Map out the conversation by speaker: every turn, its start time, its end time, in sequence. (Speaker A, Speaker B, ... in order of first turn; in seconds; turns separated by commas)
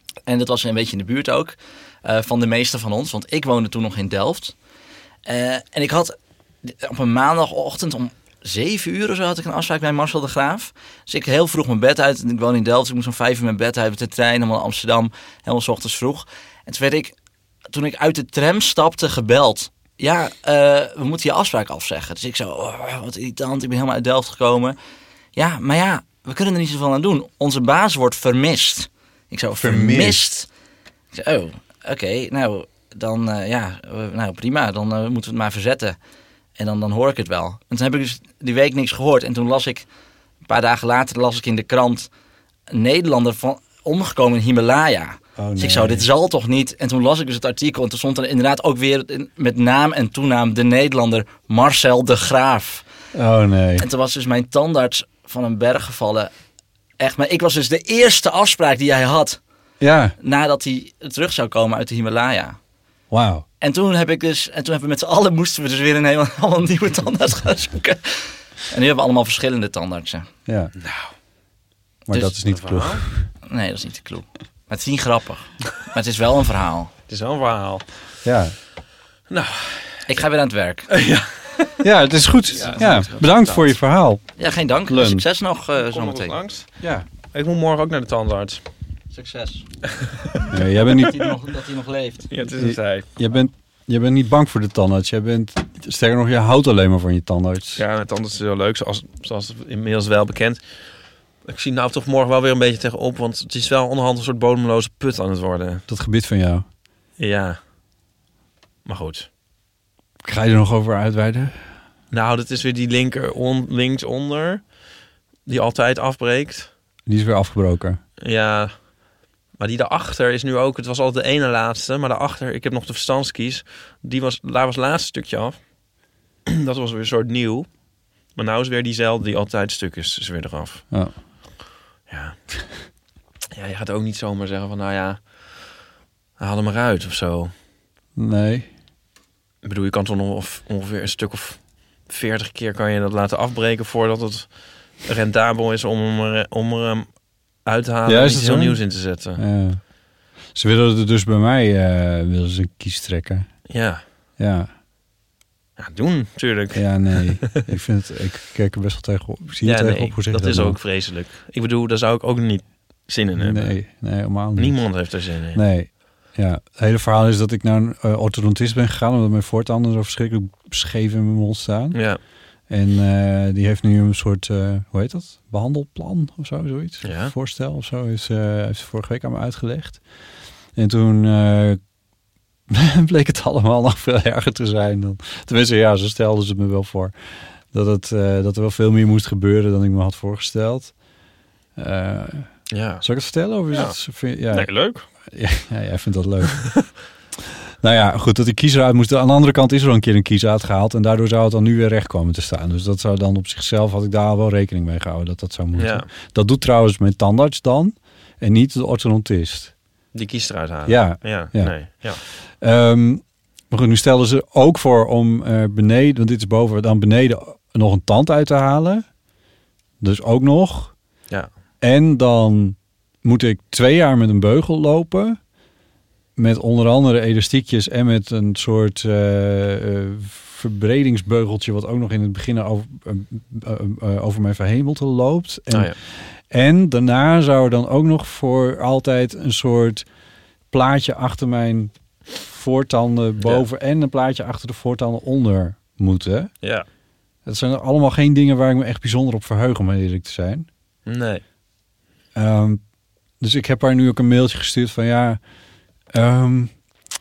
Speaker A: 0.3-4.5, Speaker A: 5.3-17.1, Speaker A: 17.7-24.8, Speaker A: 25.4-30.5, Speaker B: 29.6-30.2, Speaker A: 31.1-36.0, Speaker A: 36.6-39.9, Speaker A: 40.5-42.1, Speaker A: 42.7-52.8, Speaker B: 45.4-46.0, Speaker B: 53.1-53.9, Speaker A: 53.8-56.3, Speaker A: 57.0-59.4, Speaker B: 59.8-60.2, Speaker A: 60.2-62.6, Speaker B: 63.1-63.5, Speaker A: 63.6-70.3, Speaker B: 70.5-70.7, Speaker C: 70.8-71.1, Speaker B: 72.1-73.3, Speaker C: 72.4-73.0, Speaker A: 73.4-76.9, Speaker C: 77.1-77.8, Speaker B: 78.2-78.5, Speaker C: 79.3-80.0, Speaker A: 80.1-80.9, Speaker C: 80.9-81.8, Speaker B: 81.8-84.3, Speaker C: 82.5-83.7, Speaker A: 82.8-83.1, Speaker A: 84.4-86.4, Speaker B: 84.9-85.2, Speaker C: 85.8-86.7, Speaker B: 86.8-87.1, Speaker C: 87.3-88.6, Speaker A: 89.1-89.7, Speaker B: 90.5-91.3, Speaker A: 90.8-92.3, Speaker C: 92.3-93.1, Speaker B: 92.5-97.8, Speaker C: 97.8-100.6, Speaker C: 101.5-105.8, Speaker B: 105.9-106.7, Speaker C: 107.2-107.6, Speaker C: 108.9-109.3, Speaker B: 110.2-111.7, Speaker C: 112.1-114.7, Speaker C: 115.5-116.7, Speaker B: 117.1-118.0, Speaker C: 118.2-118.8, Speaker C: 119.6-125.6, Speaker C: 126.5-127.7, Speaker C: 128.3-130.8, Speaker C: 132.1-132.4, Speaker C: 133.6-135.6, Speaker C: 136.4-137.5, Speaker B: 138.2-138.7, Speaker C: 139.6-147.1, Speaker C: 147.6-149.4, Speaker B: 148.1-149.8, Speaker B: 150.5-153.6, Speaker C: 153.7-154.0, Speaker B: 154.4-154.7, Speaker C: 155.8-157.6, Speaker B: 156.7-160.8, Speaker C: 159.6-163.8, Speaker B: 163.4-172.0, Speaker C: 164.6-165.6, Speaker C: 171.9-172.2, Speaker B: 172.7-180.0, Speaker C: 177.0-177.3, Speaker B: 180.8-181.8, Speaker B: 182.7-187.2, Speaker B: 187.7-191.0, Speaker B: 191.8-196.9, Speaker C: 192.7-193.1, Speaker C: 193.7-194.0, Speaker C: 194.5-195.1, Speaker B: 197.8-209.7, Speaker C: 205.8-206.1, Speaker C: 210.1-212.2, Speaker B: 210.8-219.1, Speaker B: 220.0-221.0, Speaker B: 221.8-225.4, Speaker B: 226.4-240.1, Speaker B: 240.7-246.5, Speaker C: 243.4-243.7, Speaker B: 247.4-250.7, Speaker C: 251.1-251.4, Speaker B: 252.3-252.8, Speaker B: 253.4-255.4, Speaker B: 256.1-256.7